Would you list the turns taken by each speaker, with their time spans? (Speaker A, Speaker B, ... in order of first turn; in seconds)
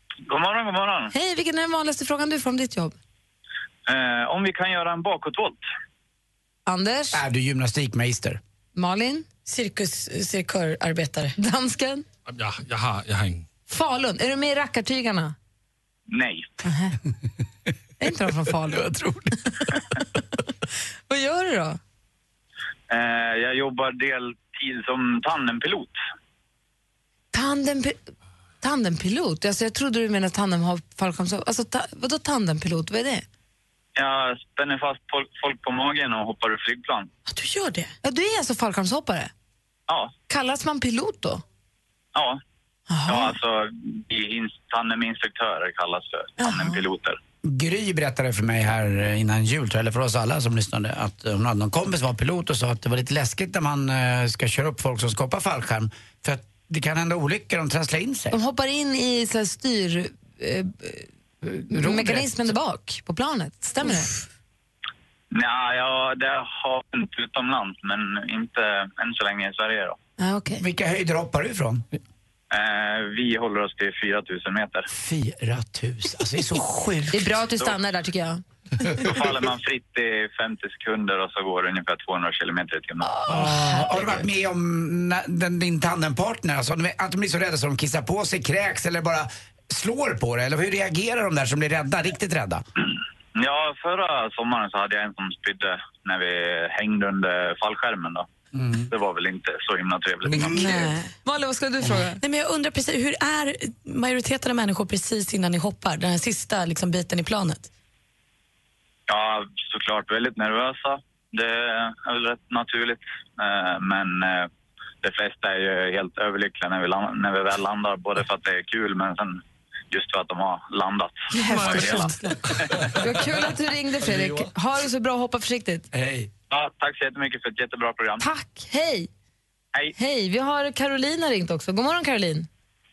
Speaker A: 0.3-1.1, 3.9-5.6, 16.1-16.5, 22.9-26.0, 34.0-37.1, 39.9-40.1, 42.1-42.4, 43.1-47.2, 65.3-70.0, 72.5-74.9, 79.0-83.2, 93.3-98.3, 98.9-100.8, 109.1-114.5, 115.0-122.2, 126.5-128.2
Speaker B: 1.1-3.0, 6.7-7.2, 8.8-9.3, 11.4-12.1, 13.7-15.3, 16.6-17.0, 18.0-18.9, 21.1-21.8, 27.3-28.1, 28.6-33.2, 38.0-39.3, 40.3-41.4, 42.9-43.4, 46.4-46.8, 58.3-61.1, 61.7-64.1, 70.2-70.6, 77.1-78.4, 83.2-84.0, 100.6-102.2, 121.4-122.4, 123.0-125.9, 128.2-129.1, 130.0-132.5
Speaker C: 7.1-8.4, 18.7-19.4, 47.4-58.4, 61.4-62.5, 70.6-71.9, 74.9-77.3, 79.0-79.2, 83.3-92.6, 98.5-98.9, 100.3-100.8, 126.0-126.3
Speaker D: 9.5-11.3, 37.3-37.9, 100.5-101.1, 102.2-107.7, 121.4-122.3
Speaker E: 12.3-13.4, 122.7-123.3, 124.1-124.5